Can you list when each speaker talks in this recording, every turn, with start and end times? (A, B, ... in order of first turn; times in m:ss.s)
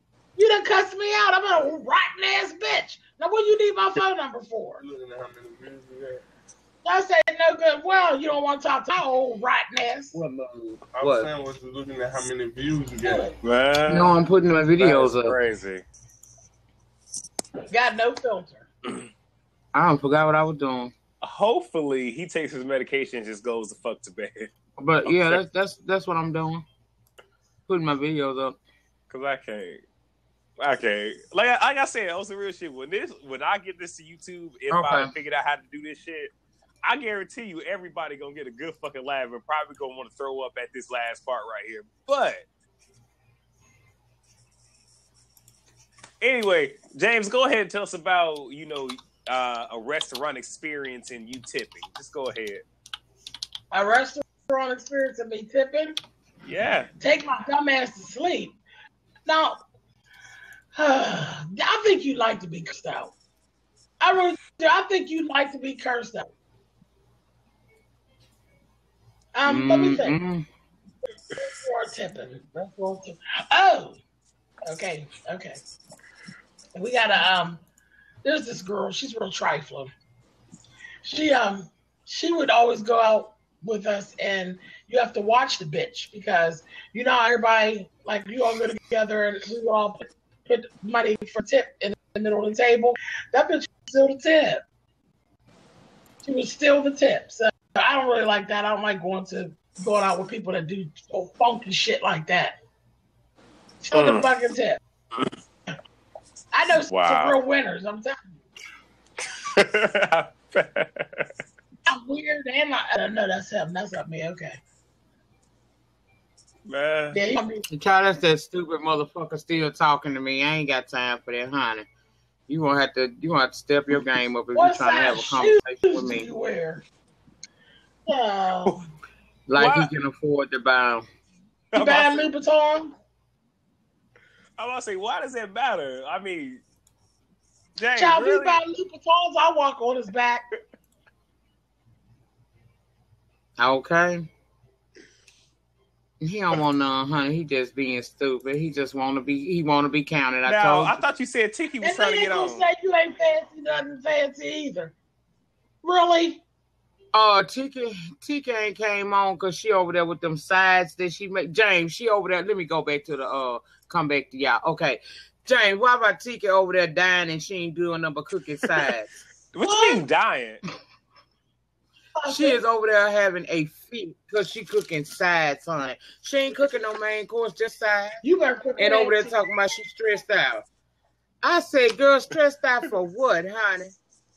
0:00.4-0:04.8 A
0:04.8-0:06.2 B
0:06.8-0:10.2 A
0:10.1-0:11.3 C
0:10.9-0:13.4 B
0:13.0-0:13.3 A
0:13.4-0:14.2 D
0:13.9-0:15.4 C
0:14.8-0:15.8 D
0:17.7-0:18.7 A
0:19.7-0:20.9 C
0:21.2-0:24.5 D
0:24.8-0:26.6 C
0:25.0-0:25.4 D
0:27.7-0:28.6 C
0:29.1-0:29.8 D
0:30.6-0:36.3 D
0:34.7-0:35.1 C
0:36.8-0:42.4 D
0:46.2-0:52.6 D
0:53.7-0:56.0 A
0:56.5-0:56.9 D
0:57.0-0:58.6 A
0:59.3-0:59.6 A
1:00.8-1:03.1 A
1:04.0-1:06.3 A
1:09.4-1:10.2 A
1:09.5-1:10.5 C
1:11.4-1:14.0 A
1:14.7-1:15.6 A
1:16.8-1:17.6 A
1:18.2-1:19.9 A
1:21.0-1:34.6 A
1:36.2-1:42.6 A
1:43.8-1:44.8 A
1:43.9-1:44.3 D
1:46.5-1:48.2 A
1:46.9-1:47.4 D
1:49.5-1:51.3 D
1:51.9-1:54.6 A
1:56.7-1:57.2 D
1:57.1-1:57.6 A
1:57.7-2:01.9 C
2:02.5-2:06.3 C
2:04.6-2:06.8 A
2:08.1-2:08.8 A
2:09.5-2:11.1 C
2:09.6-2:09.9 D
2:11.7-2:12.3 D
2:11.8-2:13.0 A
2:14.6-2:16.6 D
2:17.8-2:18.6 D
2:18.0-2:20.4 A
2:23.6-2:24.3 C
2:26.2-2:31.0 C
2:30.4-2:32.6 D
2:31.8-2:35.0 A
2:35.8-2:36.4 A
2:37.1-2:49.1 C
2:49.5-2:50.6 D
2:49.6-2:50.0 A
2:52.2-2:52.6 A
2:52.3-2:58.2 C
2:58.2-2:59.4 A
2:58.8-3:00.6 C
3:01.4-3:03.9 C